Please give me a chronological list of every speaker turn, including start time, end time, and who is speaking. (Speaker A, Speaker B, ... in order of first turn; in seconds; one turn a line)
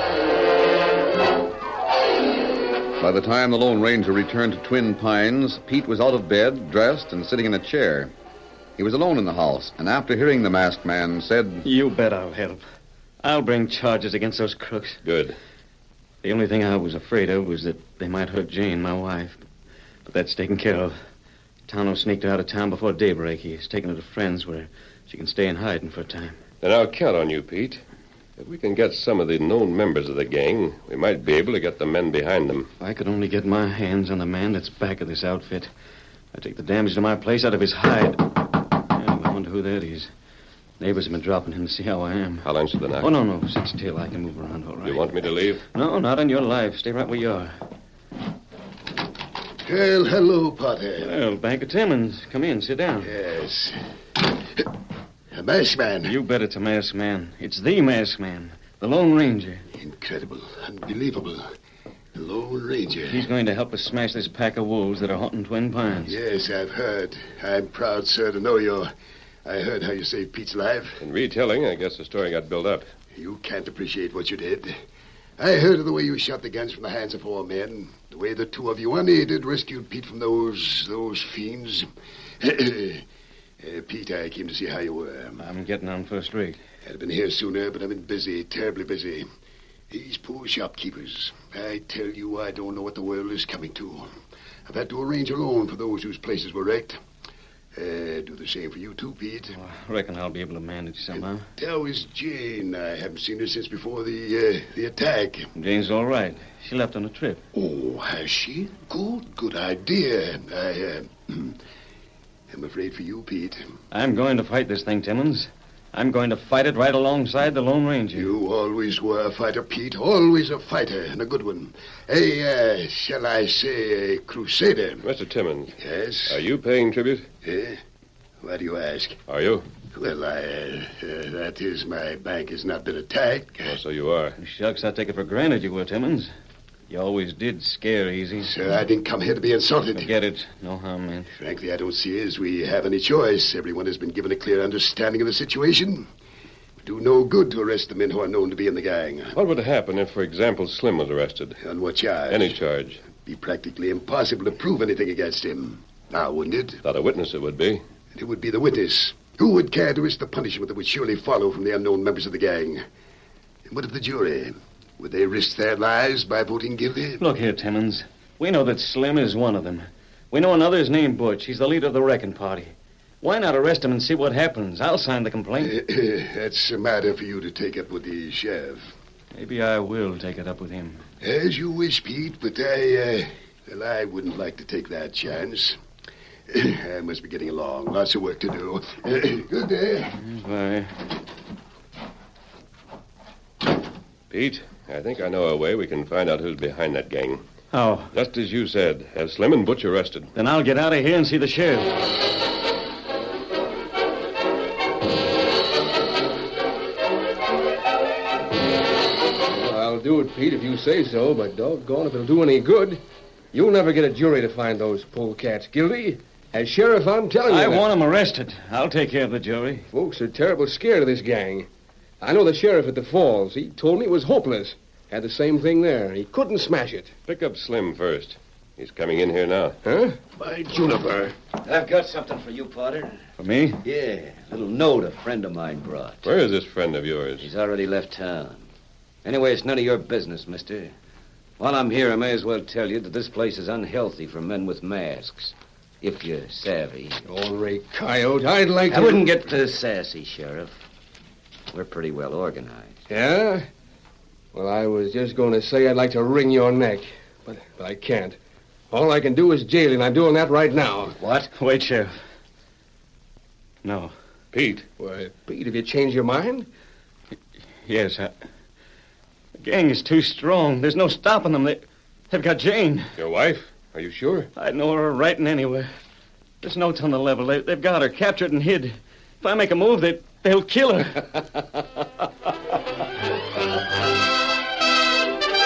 Speaker A: 3.0-8.1
Speaker A: 8.8-11.7
Speaker B: 11.6-12.6
Speaker B: 13.2-15.0
Speaker C: 15.1-15.4
Speaker B: 16.2-19.4
Speaker B: 20.1-21.0
Speaker B: 21.7-26.4
Speaker C: 26.6-27.8
Speaker C: 28.4-32.7
Speaker B: 32.8-35.7
Speaker B: 36.3-40.1
Speaker B: 40.8-42.5
Speaker C: 42.4-43.1
Speaker B: 43.0-45.1
Speaker C: 44.8-45.6
Speaker B: 45.7-47.5
Speaker D: 49.7-51.1
Speaker B: 51.0-53.1
Speaker D: 53.0-53.8
Speaker D: 55.3-56.1
Speaker B: 56.0-59.6
Speaker D: 59.8-61.4
Speaker D: 62.1-63.3
Speaker B: 63.1-66.2
Speaker D: 66.0-68.9
Speaker D: 69.5-71.0
Speaker C: 71.0-72.9
Speaker D: 73.2-74.7
Speaker D: 75.4-81.9
Speaker D: 82.4-83.0
Speaker D: 83.6-85.4
Speaker B: 85.4-86.6
Speaker D: 86.9-89.2
Speaker D: 89.9-94.1
Speaker D: 94.7-97.0
Speaker D: 97.8-99.6
Speaker B: 99.5-101.5
Speaker D: 101.2-105.5
Speaker B: 105.5-107.4
Speaker D: 107.5-111.6
Speaker D: 112.5-113.7
Speaker B: 113.9-118.3
Speaker D: 118.2-125.0
Speaker C: 125.0-127.2
Speaker D: 125.8-126.4
Speaker D: 127.4-127.8
Speaker D: 128.4-129.2
Speaker C: 129.3-129.6
Speaker D: 129.9-133.8
Speaker C: 133.7-134.4
Speaker B: 134.4-136.3
Speaker B: 136.9-138.5
Speaker D: 138.4-140.1
Speaker B: 140.0-141.3
Speaker D: 141.3-146.1
Speaker D: 146.8-149.4
Speaker C: 149.3-151.6
Speaker D: 151.6-156.8
Speaker C: 152.3-153.0
Speaker C: 156.8-157.8
Speaker D: 158.2-162.8
Speaker D: 163.7-167.2
Speaker B: 167.2-175.8
Speaker D: 175.6-178.8
Speaker B: 179.3-181.0
Speaker D: 181.2-185.8
Speaker D: 186.5-190.2
Speaker B: 190.2-190.9
Speaker C: 194.3-197.4
Speaker B: 197.7-198.1
Speaker C: 198.1-200.3
Speaker B: 200.3-201.9
Speaker E: 209.5-213.0
Speaker E: 213.5-217.9
Speaker B: 217.4-219.9
Speaker E: 219.9-221.7
Speaker E: 222.2-227.1
Speaker C: 227.3-229.8
Speaker E: 229.8-230.2
Speaker D: 230.4-231.3
Speaker F: 231.6-233.2
Speaker B: 233.4-233.8
Speaker F: 233.8-236.3
Speaker C: 236.2-237.5
Speaker F: 237.4-238.6
Speaker F: 239.2-240.9
Speaker F: 241.6-247.2
Speaker E: 247.2-249.3
Speaker F: 248.9-250.7
Speaker F: 251.7-253.0
Speaker E: 253.1-253.7
Speaker E: 254.5-258.4
Speaker E: 258.9-261.1
Speaker F: 261.2-261.5
Speaker B: 261.5-262.2
Speaker B: 263.8-264.1
Speaker C: 264.5-264.9
Speaker E: 265.0-266.7
Speaker B: 267.9-268.3
Speaker B: 269.6-273.1
Speaker C: 273.2-274.5
Speaker B: 274.6-275.9
Speaker B: 276.6-281.4